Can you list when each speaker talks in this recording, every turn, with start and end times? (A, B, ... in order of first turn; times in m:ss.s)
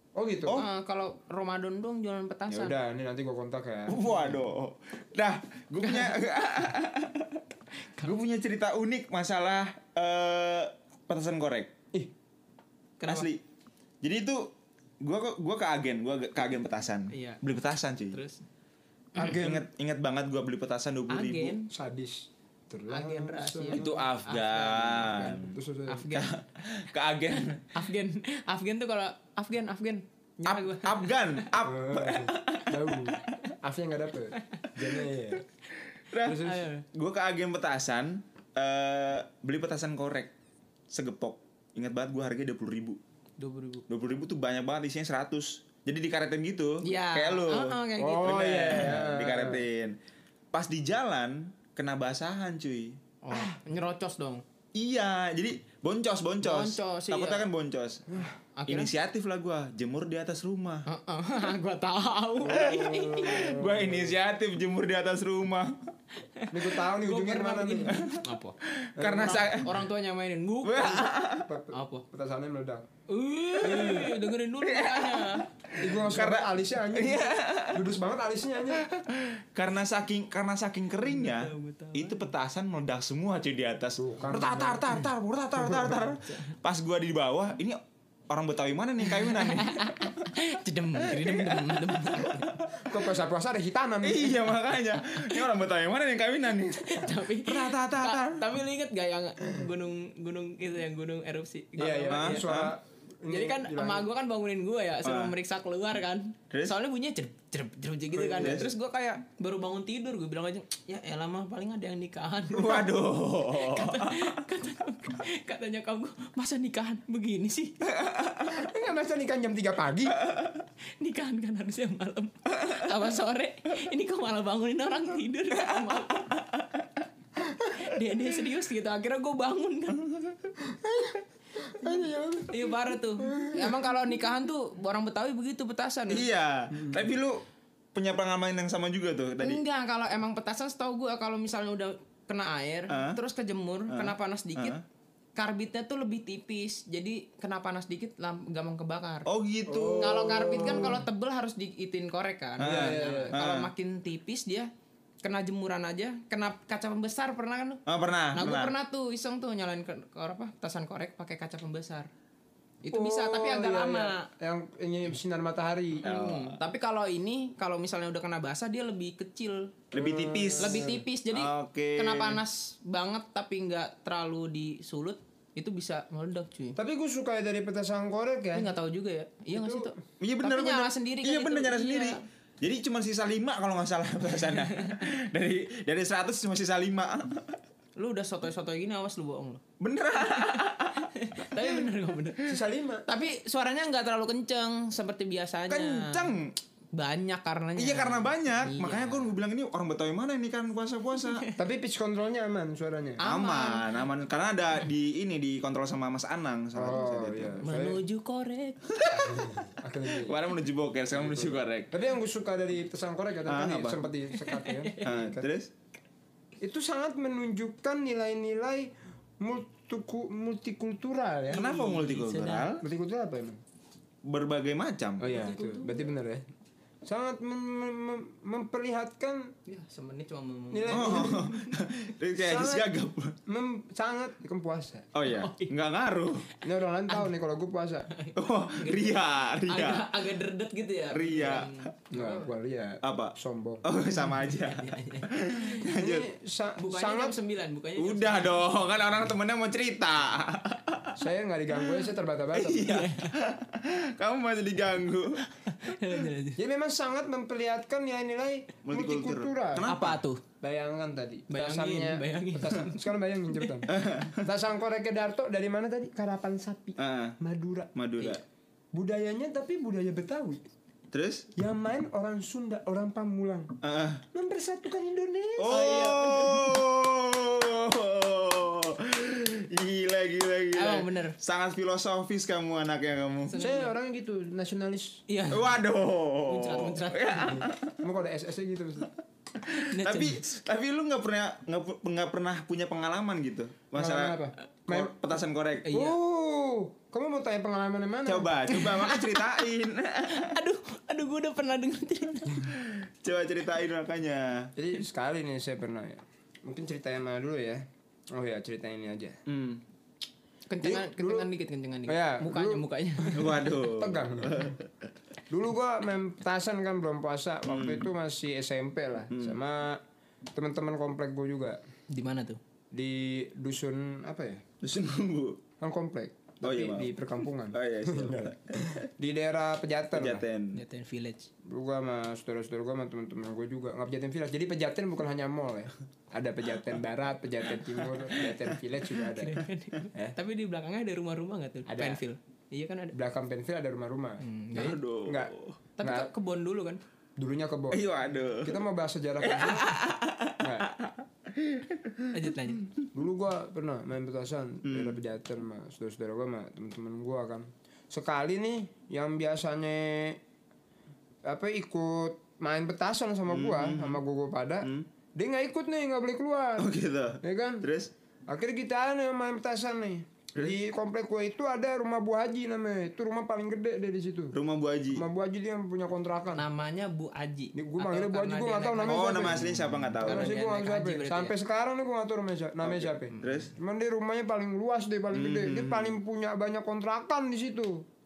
0:00.2-0:00.6 A
0:00.5-0:02.8 B
0:02.5-0:04.1 A
0:03.9-0:07.4 C
0:05.8-0:06.1 B
0:08.0-0:11.7 C
0:13.0-0:13.3 B
0:13.0-0:13.4 C
0:14.0-0:18.2 C
0:17.1-0:17.4 B
0:18.1-0:18.4 B
0:19.2-0:19.6 A
0:19.2-0:21.7 C
0:21.1-0:21.7 B
0:21.7-0:24.1 A
0:22.9-0:25.1 B
0:23.7-0:25.6 C
0:24.7-0:26.1 A
0:25.9-0:26.3 B
0:26.1-0:27.8 C
0:27.7-0:31.5 B
0:30.4-0:33.2 C
0:31.6-0:35.4 A
0:34.4-0:35.0 B
0:36.1-0:40.3 C
0:36.2-0:36.7 A
0:36.3-0:36.8 B
0:40.9-0:43.0 C
0:43.4-0:43.9 B
0:43.9-0:50.0 C
0:46.8-0:48.6 B
0:48.0-0:49.6 A
0:50.5-0:53.0 C
0:53.2-0:54.4 B
0:54.8-0:58.1 C
0:56.4-0:57.5 B
0:58.6-0:58.9 B
0:58.7-1:00.9 C
1:00.9-1:03.5 B
1:02.4-1:04.2 A
1:02.5-1:05.8 C
1:06.4-1:08.6 B
1:06.5-1:08.0 A
1:07.9-1:09.8 C
1:09.0-1:09.5 A
1:09.1-1:11.1 B
1:10.6-1:11.5 C
1:11.4-1:12.9 A
1:11.7-1:12.0 B
1:13.1-1:15.5 B
1:13.6-1:14.1 A
1:14.6-1:18.0 C
1:15.8-1:18.8 A
1:18.7-1:30.2 C
1:21.0-1:22.3 B
1:24.0-1:26.2 A
1:26.2-1:26.6 B
1:29.0-1:32.6 B
1:31.0-1:33.1 C
1:32.8-1:34.5 A
1:34.0-1:38.4 C
1:35.0-1:35.4 B
1:36.8-1:42.5 B
1:41.8-1:44.1 A
1:42.1-1:42.7 C
1:43.3-1:57.9 B
1:45.0-1:45.4 C
1:46.5-1:46.8 C
1:48.2-1:48.7 A
1:48.4-1:48.7 C
1:52.5-1:54.4 C
1:57.8-1:58.6 C
1:58.5-2:00.2 A
2:00.2-2:00.6 C
2:01.0-2:06.3 B
2:05.5-2:07.0 C
2:07.7-2:10.0 B
2:10.1-2:10.3 C
2:10.6-2:13.8 A
2:12.5-2:16.3 B
2:16.1-2:19.6 C
2:16.7-2:17.0 A
2:19.4-2:24.8 B
2:22.9-2:23.2 C
2:23.9-2:24.8 C
2:25.4-2:29.3 B
2:29.3-2:30.9 C
2:29.7-2:31.0 A
2:30.0-2:34.7 B
2:32.6-2:33.7 C
2:32.6-2:33.4 A
2:35.2-2:42.1 B
2:37.9-2:38.8 C
2:42.8-2:44.3 B
2:42.9-2:46.1 A
2:46.0-2:46.6 C
2:46.0-2:49.7 B
2:49.9-2:52.4 C
2:49.9-2:51.0 A
2:50.6-2:56.8 B
2:56.8-2:58.7 A
2:58.5-3:02.2 B
2:59.5-2:59.9 A
3:00.2-3:07.6 C
3:04.8-3:05.0 B
3:08.0-3:09.6 B
3:09.8-3:11.9 C
3:10.2-3:12.5 B
3:12.4-3:13.0 A
3:13.1-3:16.3 B
3:15.7-3:16.6 C
3:16.9-3:19.4 B
3:17.8-3:21.5 C
3:21.2-3:21.6 B
3:21.6-3:23.2 A
3:23.2-3:23.9 B
3:23.2-3:27.6 C
3:26.8-3:28.0 A
3:27.6-3:29.0 B
3:28.9-3:29.5 C
3:29.1-3:30.4 A
3:30.1-3:31.9 C
3:31.1-3:35.5 A
3:33.5-3:34.0 C
3:34.4-3:35.2 B
3:35.0-3:35.7 C
3:36.6-3:41.6 A
3:41.5-3:42.7 B
3:41.5-3:42.9 C
3:42.8-3:43.6 A
3:44.2-3:45.4 C
3:45.2-3:46.4 A
3:45.3-3:46.1 B
3:47.1-3:49.5 A
3:49.7-3:51.7 B
3:50.7-3:51.5 A
3:50.9-3:53.4 C
3:52.4-3:52.9 A
3:53.5-3:55.1 A
3:55.1-3:56.5 C
3:55.2-3:55.7 B
3:56.6-3:58.1 A
3:58.1-4:02.5 B
3:58.4-4:00.1 C
4:01.1-4:01.9 C
4:02.1-4:03.8 A
4:03.0-4:06.3 C
4:04.1-4:05.9 B
4:05.9-4:07.4 A
4:06.8-4:08.7 B
4:08.0-4:11.2 C
4:11.2-4:13.0 A
4:11.8-4:15.4 C
4:12.8-4:13.3 B
4:15.6-4:16.6 B
4:16.6-4:19.9 A
4:18.8-4:20.2 C
4:19.9-4:20.4 B
4:20.6-4:27.9 A
4:21.5-4:23.8 B
4:23.9-4:24.5 C
4:27.0-4:27.4 C
4:28.0-4:28.4 C
4:28.9-4:30.6 A
4:31.1-4:31.5 C
4:31.6-4:33.8 A
4:33.8-4:34.2 C
4:34.3-4:36.0 A
4:35.6-4:43.6 C
4:35.7-4:36.8 B
4:40.7-4:41.4 B
4:43.5-4:43.9 B
4:43.6-4:45.2 A
4:45.3-4:45.8 B
4:45.5-4:48.0 C
4:46.5-4:47.6 B
4:47.5-4:49.1 A
4:49.6-4:55.9 C
4:49.7-4:50.4 B
4:53.9-4:55.3 A
4:55.9-4:56.2 B
4:55.9-4:58.5 A
4:58.2-5:00.6 C
4:58.7-4:59.5 B
5:00.3-5:02.7 B
5:02.6-5:04.7 C
5:04.8-5:09.4 A
5:09.5-5:09.8 C
5:10.7-5:13.6 B
5:10.8-5:11.5 A
5:12.1-5:14.8 A
5:13.3-5:14.9 C
5:15.5-5:20.0 A
5:17.7-5:18.1 C
5:19.3-5:19.6 C
5:20.6-5:21.8 A
5:22.1-5:22.6 B
5:22.9-5:24.6 A
5:24.8-5:25.6 C
5:25.8-5:30.4 A
5:26.6-5:27.2 C
5:27.7-5:29.1 C
5:30.1-5:30.8 C
5:30.7-5:31.5 B
5:31.6-5:40.4 A
5:39.1-5:43.2 B
5:41.9-5:42.2 A
5:43.1-5:46.3 A
5:44.4-5:45.0 B
5:44.7-5:45.8 C
5:46.0-5:47.0 B
5:47.4-5:48.1 A
5:47.9-5:48.8 C
5:48.6-5:50.0 A
5:49.4-5:53.0 C
5:50.6-5:50.9 A
5:52.3-5:52.9 B
5:53.1-6:00.4 A
5:54.8-5:55.2 C
6:01.4-6:07.9 A
6:03.5-6:04.2 C
6:04.8-6:05.1 C
6:06.8-6:08.1 C
6:08.5-6:14.6 A
6:10.6-6:10.8 C
6:14.5-6:15.3 C
6:15.1-6:16.6 A
6:16.5-6:21.5 B
6:17.8-6:28.0 A
6:19.1-6:20.6 C
6:22.8-6:23.8 C
6:25.3-6:26.2 C